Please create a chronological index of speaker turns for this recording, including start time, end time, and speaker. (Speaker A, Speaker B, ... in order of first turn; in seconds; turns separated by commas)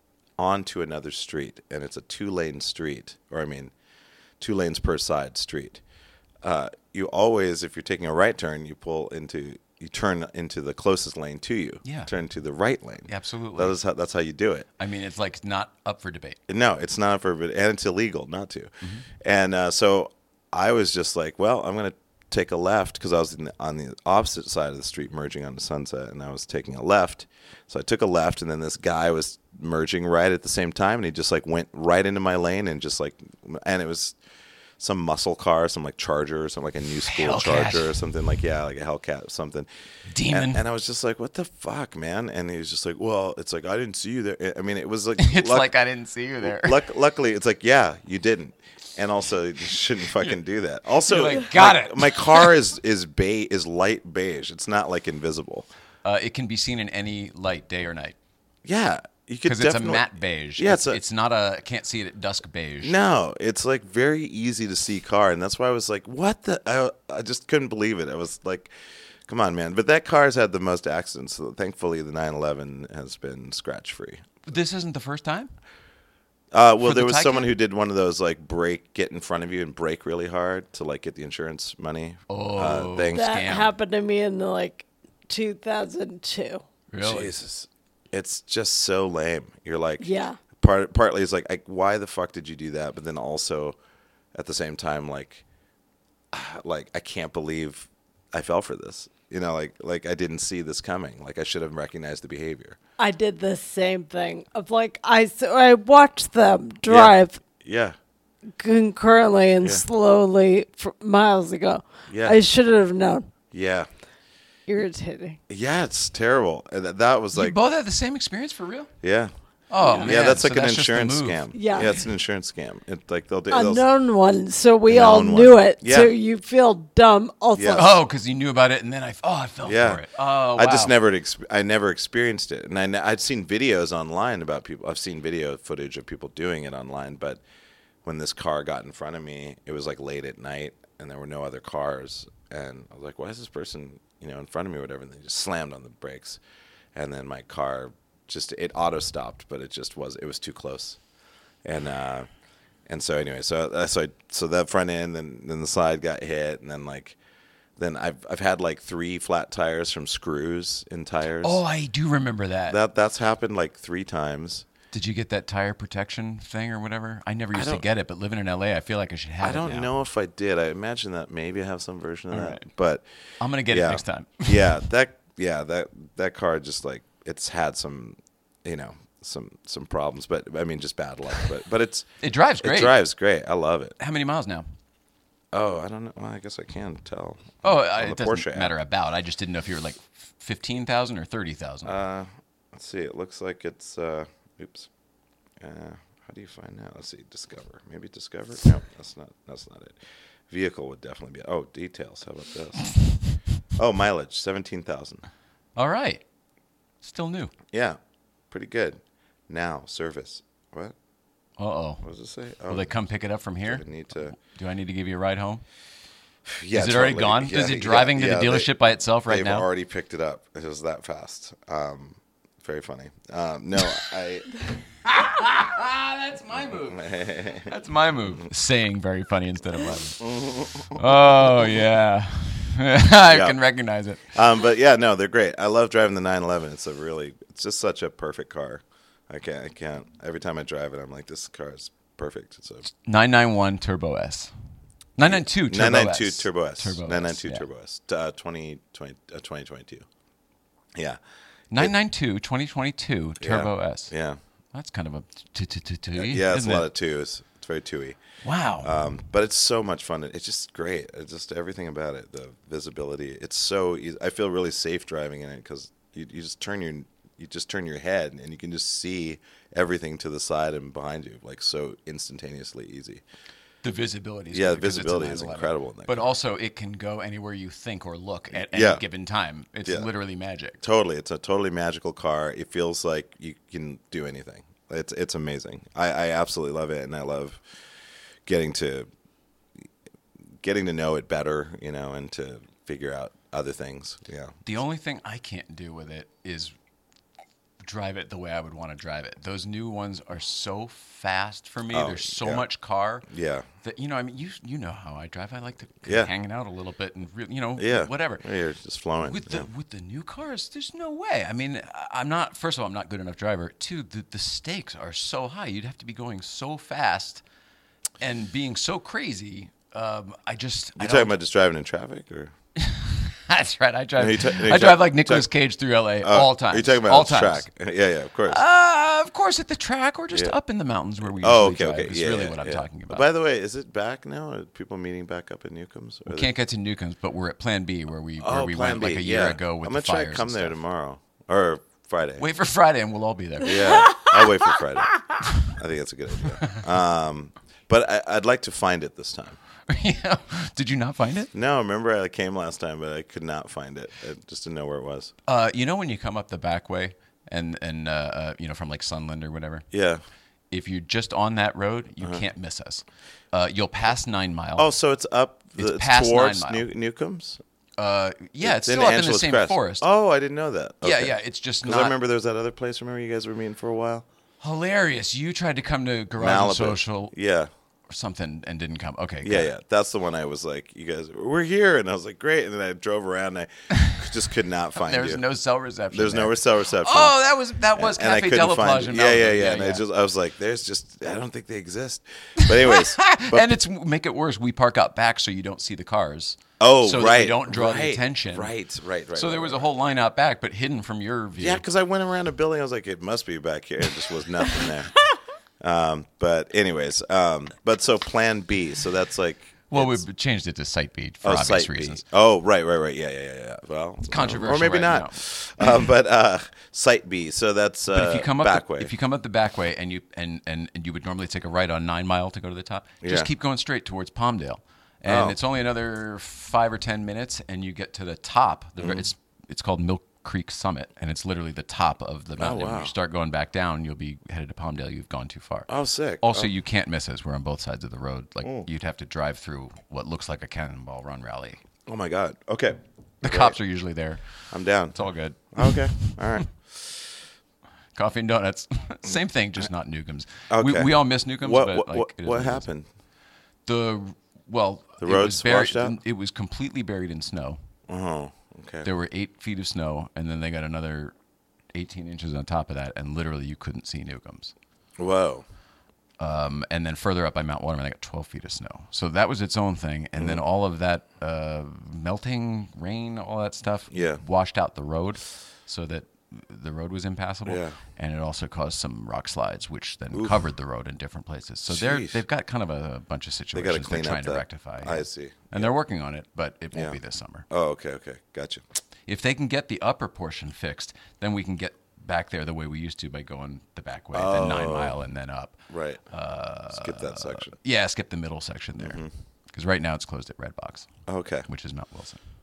Speaker A: 0.4-3.7, Speaker A: 4.4-5.8, Speaker A: 6.4-14.7, Speaker B: 11.8-12.1, Speaker B: 13.1-13.8, Speaker B: 14.8-16.4, Speaker A: 16.5-34.2, Speaker A: 34.8-39.7, Speaker B: 37.0-38.0, Speaker B: 40.1-40.6, Speaker A: 40.3-45.7, Speaker B: 45.2-46.8, Speaker A: 46.4-55.7, Speaker B: 51.1-52.5, Speaker B: 56.0-58.2, Speaker A: 58.6-61.0, Speaker B: 59.5-63.0, Speaker A: 62.8-68.7, Speaker A: 69.3-74.2, Speaker B: 74.5-75.5, Speaker A: 76.5-83.4, Speaker B: 76.8-77.5, Speaker B: 82.3-83.7, Speaker C: 83.1-86.6, Speaker B: 86.9-87.3, Speaker A: 87.0-93.8, Speaker C: 90.0-90.4, Speaker A: 94.3-95.4, Speaker A: 96.3-102.8, Speaker C: 103.0-107.4, Speaker A: 106.9-108.0, Speaker C: 108.6-113.3, Speaker A: 109.6-109.9, Speaker A: 112.1-112.4, Speaker A: 113.5-113.9, Speaker C: 114.7-115.4, Speaker A: 115.5-117.5, Speaker B: 117.3-118.9, Speaker A: 119.0-119.3, Speaker B: 119.7-122.0, Speaker A: 119.9-123.9, Speaker C: 121.5-121.9, Speaker C: 123.5-128.0, Speaker A: 124.9-126.1, Speaker A: 127.5-127.9, Speaker B: 127.7-130.9, Speaker A: 129.6-137.4, Speaker A: 138.0-146.4, Speaker A: 146.9-151.0, Speaker A: 151.6-152.3, Speaker A: 152.9-157.2, Speaker A: 157.8-161.6, Speaker B: 161.4-162.8, Speaker A: 162.7-164.7, Speaker B: 164.9-169.9, Speaker A: 167.5-167.8, Speaker A: 169.4-173.1, Speaker B: 172.3-172.6, Speaker B: 173.4-174.8, Speaker A: 173.7-183.9, Speaker B: 182.2-183.0, Speaker B: 184.0-184.7, Speaker A: 185.5-188.7, Speaker B: 187.6-192.0, Speaker A: 191.8-194.9, Speaker A: 195.6-203.2, Speaker A: 203.7-205.2, Speaker B: 205.8-206.2, Speaker B: 207.0-207.5, Speaker A: 207.7-208.0, Speaker A: 208.5-210.9, Speaker B: 211.6-212.0, Speaker A: 212.0-212.9, Speaker B: 212.7-215.6, Speaker A: 213.6-214.4, Speaker A: 216.4-218.7, Speaker B: 216.7-219.7, Speaker A: 219.3-224.5, Speaker B: 225.1-230.3, Speaker A: 226.6-227.7, Speaker A: 230.2-231.8, Speaker B: 230.9-234.2, Speaker A: 233.3-233.6, Speaker A: 234.3-242.8, Speaker B: 242.9-244.5, Speaker B: 245.2-247.6, Speaker A: 245.2-250.1, Speaker A: 250.9-251.2, Speaker B: 251.7-254.1, Speaker A: 253.4-254.4, Speaker B: 254.7-256.9, Speaker A: 256.1-258.2, Speaker B: 258.4-258.9, Speaker A: 258.8-273.2, Speaker B: 273.8-280.8, Speaker A: 274.5-276.2, Speaker A: 278.5-279.0, Speaker A: 280.8-287.6, Speaker A: 288.4-289.1, Speaker A: 290.6-294.5, Speaker B: 294.6-296.7, Speaker B: 297.8-303.3, Speaker A: 301.9-302.7, Speaker A: 303.3-303.7, Speaker B: 303.8-308.4, Speaker A: 306.1-306.3, Speaker A: 307.8-309.7, Speaker B: 309.2-317.4, Speaker B: 318.2-321.3, Speaker A: 320.9-322.5, Speaker B: 322.8-327.7, Speaker A: 324.2-325.5, Speaker A: 326.2-328.6, Speaker B: 328.5-333.2, Speaker A: 331.2-336.5, Speaker B: 336.3-340.8, Speaker A: 338.4-342.4, Speaker B: 342.4-343.8, Speaker A: 343.6-349.6, Speaker C: 344.0-344.3, Speaker B: 349.9-351.5, Speaker A: 351.5-355.3, Speaker B: 355.5-359.8, Speaker A: 359.9-360.2, Speaker B: 360.7-364.9, Speaker A: 364.8-367.6, Speaker B: 365.7-366.9, Speaker B: 368.0-370.1, Speaker A: 368.6-374.3, Speaker B: 371.0-372.2, Speaker B: 374.6-377.3, Speaker A: 376.4-377.7, Speaker B: 378.1-379.7, Speaker A: 379.4-385.4, Speaker B: 383.9-384.2, Speaker B: 384.9-390.0, Speaker A: 386.1-387.4, Speaker A: 387.9-393.7, Speaker B: 392.6-398.7, Speaker A: 396.8-399.9, Speaker B: 399.3-401.8, Speaker A: 401.6-405.2, Speaker A: 405.8-410.2, Speaker B: 409.9-412.2, Speaker A: 411.4-419.1, Speaker B: 414.3-415.4, Speaker B: 418.1-435.9, Speaker A: 423.2-423.5, Speaker A: 425.2-425.6, Speaker A: 429.0-429.3, Speaker A: 432.6-433.1, Speaker A: 435.9-436.7, Speaker B: 436.4-441.8, Speaker A: 442.1-443.8, Speaker B: 443.4-446.7, Speaker A: 444.7-446.9, Speaker B: 448.1-452.9, Speaker A: 450.7-453.1, Speaker B: 453.9-457.8, Speaker A: 455.2-456.2, Speaker A: 458.1-459.1, Speaker B: 459.0-461.3, Speaker B: 461.9-464.7, Speaker A: 465.2-465.6, Speaker B: 466.4-487.7, Speaker A: 470.4-470.6, Speaker A: 474.1-474.4, Speaker A: 477.7-478.0, Speaker A: 480.3-480.6, Speaker A: 481.9-482.4, Speaker A: 483.7-485.9, Speaker A: 486.9-487.2, Speaker A: 487.7-488.8, Speaker B: 489.3-501.1, Speaker A: 494.3-495.2, Speaker A: 495.9-496.2, Speaker A: 496.9-497.7, Speaker A: 499.0-499.3, Speaker A: 501.3-501.7, Speaker B: 501.7-502.4